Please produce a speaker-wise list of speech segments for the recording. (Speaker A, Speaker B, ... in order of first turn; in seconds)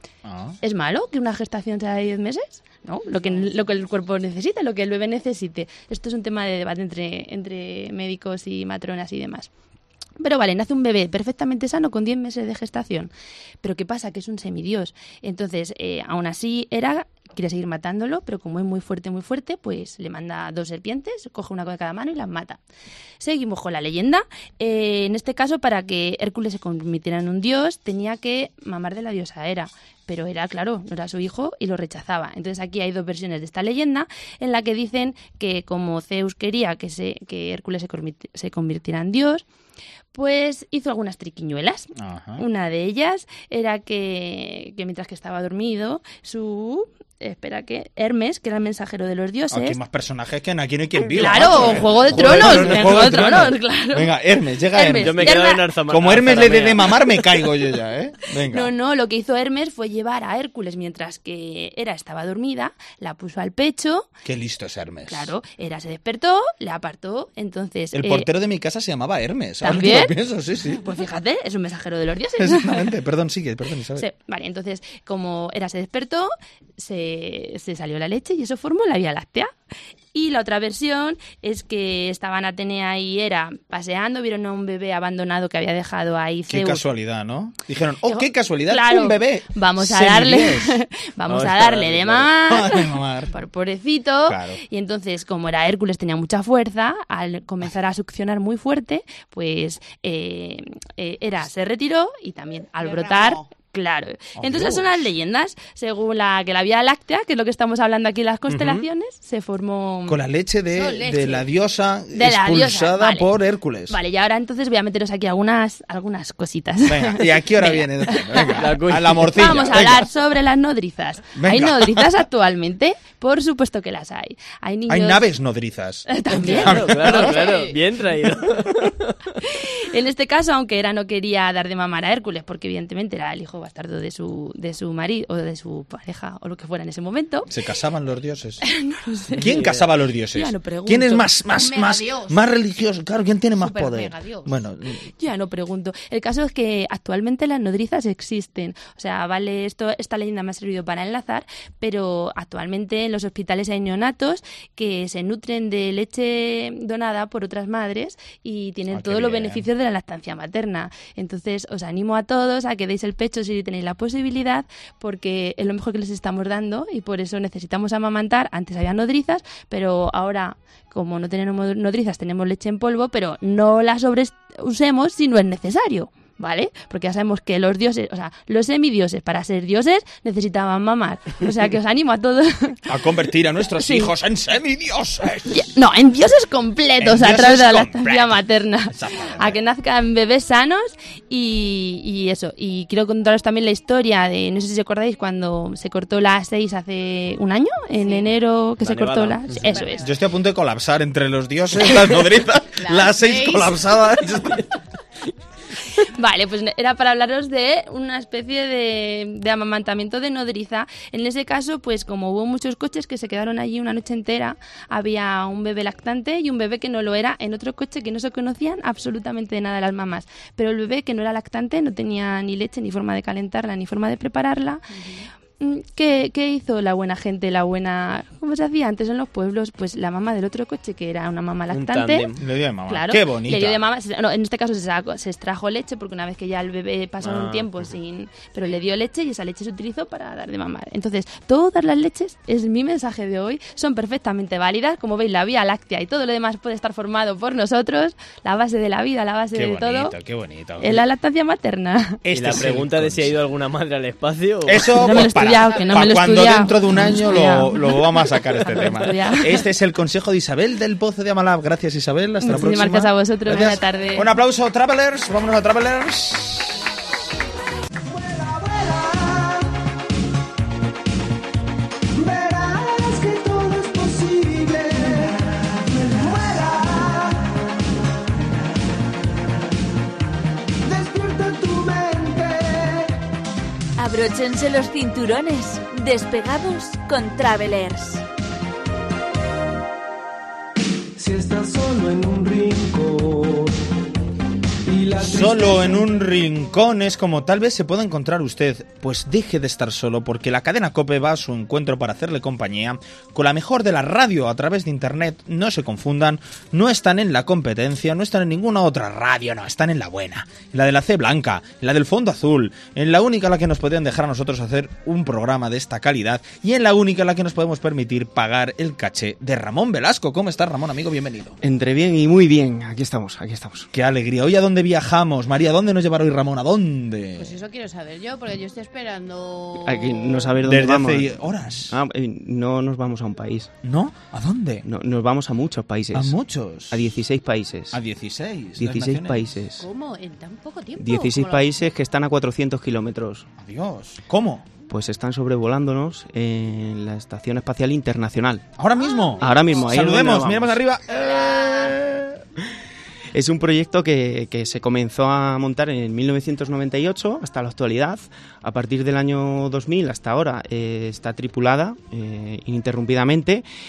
Speaker A: 0.2-0.6, 42.0-42.4, 49.5-55.3, 55.9-58.7, 64.2-65.3, 67.9-70.8, 72.4-74.0, 86.5-90.8, 92.5-93.3, 94.3-94.6, 104.4-105.0, 110.1-114.0, 116.9-120.1, 121.4-122.1, 124.9-127.4, 137.5-138.6, 139.4-145.1, 158.9-159.7, 182.9-185.7, 187.0-188.4, 188.9-189.6, 200.0-204.7, 232.4-233.8, 249.5-251.0, 252.2-253.3, 254.7-266.9, 295.1-321.6, 323.9-327.6, 330.6-332.0, 333.8-334.9, 336.1-337.0, 337.9-339.5, 343.6-344.7, 348.8-352.4
Speaker B: 0.6-9.5, 10.2-13.1, 13.6-22.6, 23.2-39.4, 40.1-49.8, 51.1-54.1, 54.7-55.6, 58.5-64.1, 65.1-68.3, 69.6-70.2, 70.7-72.9, 74.0-79.5, 80.1-86.8, 88.1-110.2, 112.1-113.3, 113.9-118.6, 119.3-125.2, 126.1-127.3, 129.5-137.5, 138.6-139.6, 140.3-141.3, 145.1-182.8, 183.8-184.1, 185.5-200.0, 206.0-224.8, 225.6-232.3, 232.9-250.1, 250.8-252.2, 254.9-259.6, 262.4-264.3
Speaker C: 51.5-53.2, 54.9-57.0, 91.3-92.3, 108.5-108.8, 118.6-119.6, 126.3-129.2, 198.8-199.6, 231.7-232.4, 237.2-237.9, 252.3-255.0
Speaker D: 102.8-103.5, 110.7-111.5, 127.3-127.6, 141.5-142.4, 143.6-144.5, 198.0-198.3, 199.6-200.1, 202.8-203.8, 224.9-225.2, 255.4-256.1, 327.4-330.6, 339.8-341.7, 349.0-349.9, 351.1-351.9
Speaker E: 268.1-269.7, 272.1-277.6, 280.8-283.1, 291.1-293.7, 294.9-296.2
Speaker F: 284.0-288.2
Speaker G: 321.6-323.9, 329.8-333.7, 334.8-336.4, 336.9-338.0, 338.8-339.9, 341.0-343.4, 344.9-348.7, 349.4-350.8, 353.3-363.6